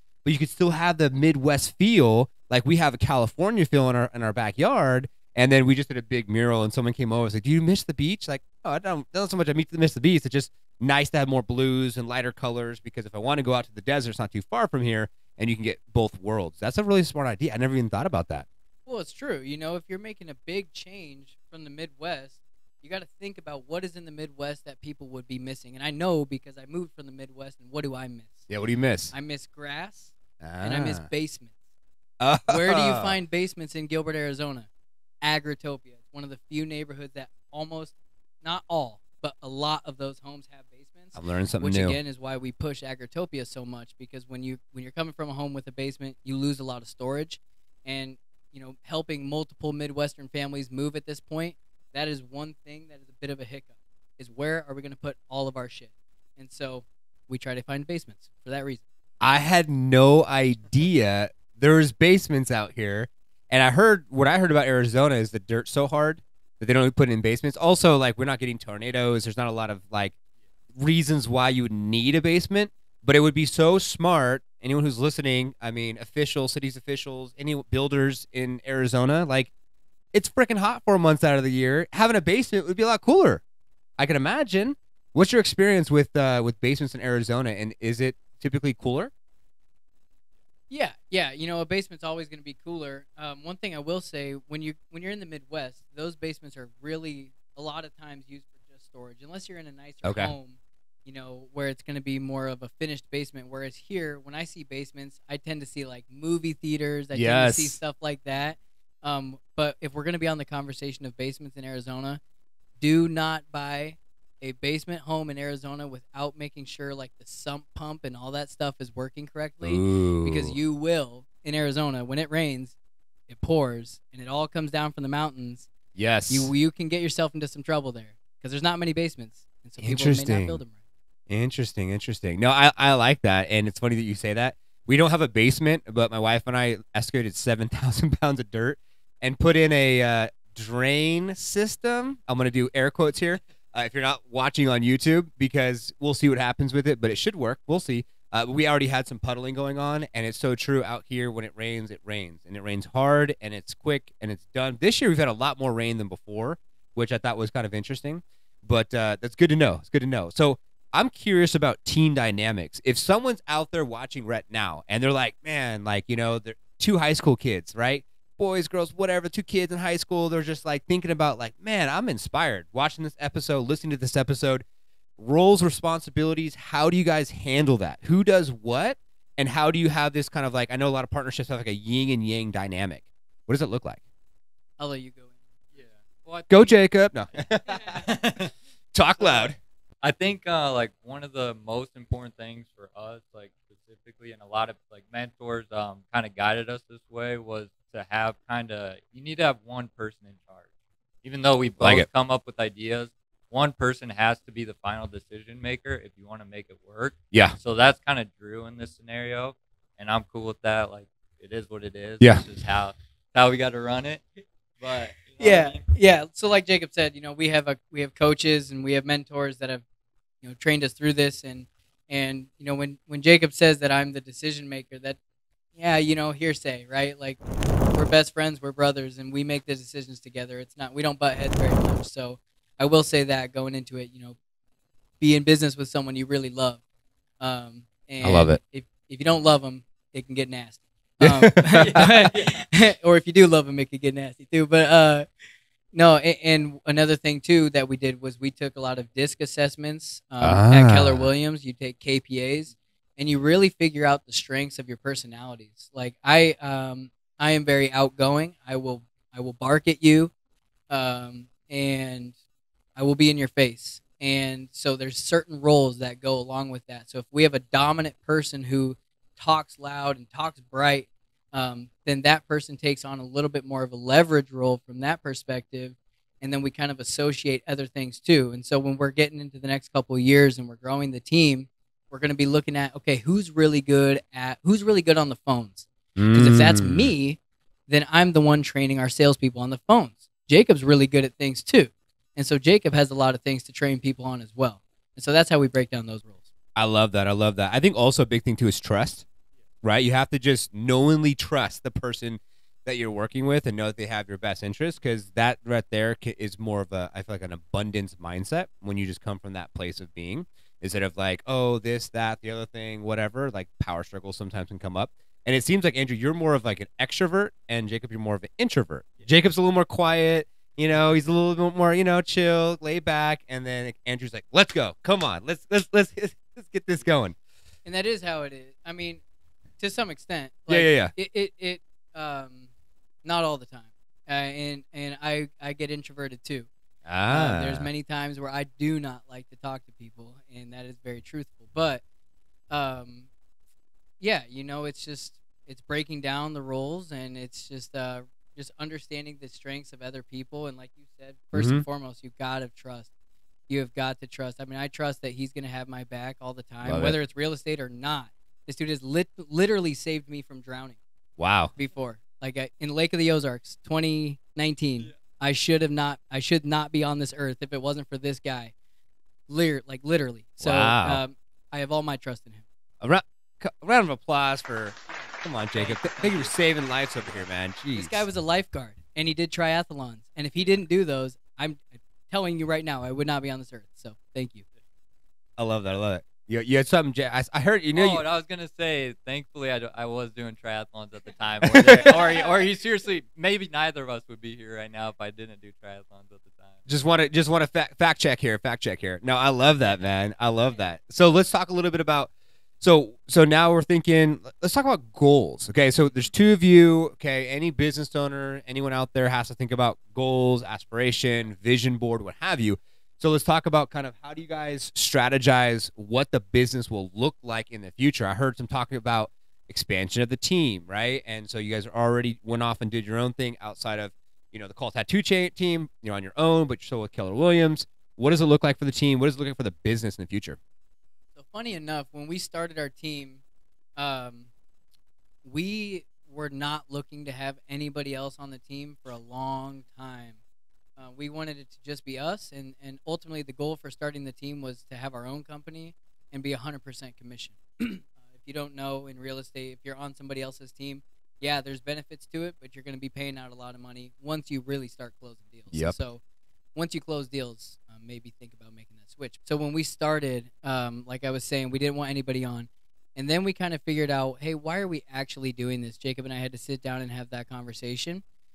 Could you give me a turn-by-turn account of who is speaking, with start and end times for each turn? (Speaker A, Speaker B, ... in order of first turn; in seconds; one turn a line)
Speaker A: 0.2-18.5
Speaker B: 18.9-28.5
Speaker A: 28.5-29.1
Speaker B: 29.1-31.6
Speaker A: 30.4-31.1
Speaker A: 32.2-33.1
Speaker B: 32.5-34.7
Speaker B: 35.2-58.8
Speaker A: 41.1-42.0
Speaker A: 59.2-70.1
Speaker A: 70.7-79.5
Speaker A: 80.1-83.4
Speaker A: 84.0-89.1
Speaker B: 90.7-112.2
Speaker A: 100.0-100.3
Speaker A: 107.1-107.8
Speaker B: 112.8-122.8
Speaker A: 119.6-120.5
Speaker B: 123.3-125.7
Speaker A: 125.9-126.5
Speaker B: 126.3-130.8
Speaker A: 129.8-130.6
Speaker A: 131.3-174.6
Speaker A: 175.2-184.0
Speaker B: 184.8-185.4
Speaker C: 185.7-186.7
Speaker A: 186.5-188.1
Speaker C: 187.8-188.5
Speaker A: 188.9-189.6
Speaker C: 189.2-189.5
Speaker C: 190.0-200.7
Speaker C: 201.2-214.2
Speaker A: 201.8-202.1
Speaker A: 207.3-207.6
Speaker C: 214.8-215.8
Speaker B: 215.4-219.8
Speaker B: 220.4-225.2
Speaker B: 225.7-227.4
Speaker B: 227.9-234.3
Speaker B: 235.2-236.8
Speaker B: 237.4-245.3
Speaker A: 238.2-238.6
Speaker A: 241.2-242.2
Speaker C: 241.8-242.6
Speaker B: 245.9-260.3
Speaker A: 250.4-251.3
Speaker B: 260.9-262.3
Speaker B: 263.0-296.4
Speaker A: 286.1-287.1
Speaker A: 296.8-299.2
Speaker A: 299.8-327.4
Speaker B: 327.8-329.2
Speaker B: 329.8-332.7
Speaker A: 330.7-331.1
Speaker B: 333.2-336.7
Speaker A: 337.0-337.9
Speaker B: 337.3-342.0
Speaker B: 342.7-343.3
Speaker B: 344.2-353.1
Speaker A: 351.5-351.8
Speaker B: 353.7-361.0
Speaker A: 356.8-357.2
Speaker A: 361.4-361.7
Speaker B: 361.8-368.7
Speaker B: 369.5-372.6
Speaker A: 370.6-371.2
Speaker A: 373.0-378.2
Speaker C: 376.0-376.4
Speaker B: 377.9-384.6
Speaker A: 385.6-388.2
Speaker C: 387.9-396.8
Speaker A: 391.6-392.2
Speaker A: 396.9-430.6
Speaker B: 431.3-433.4
Speaker B: 434.0-434.5
Speaker B: 435.4-440.4
Speaker B: 441.0-456.2
Speaker B: 456.7-468.2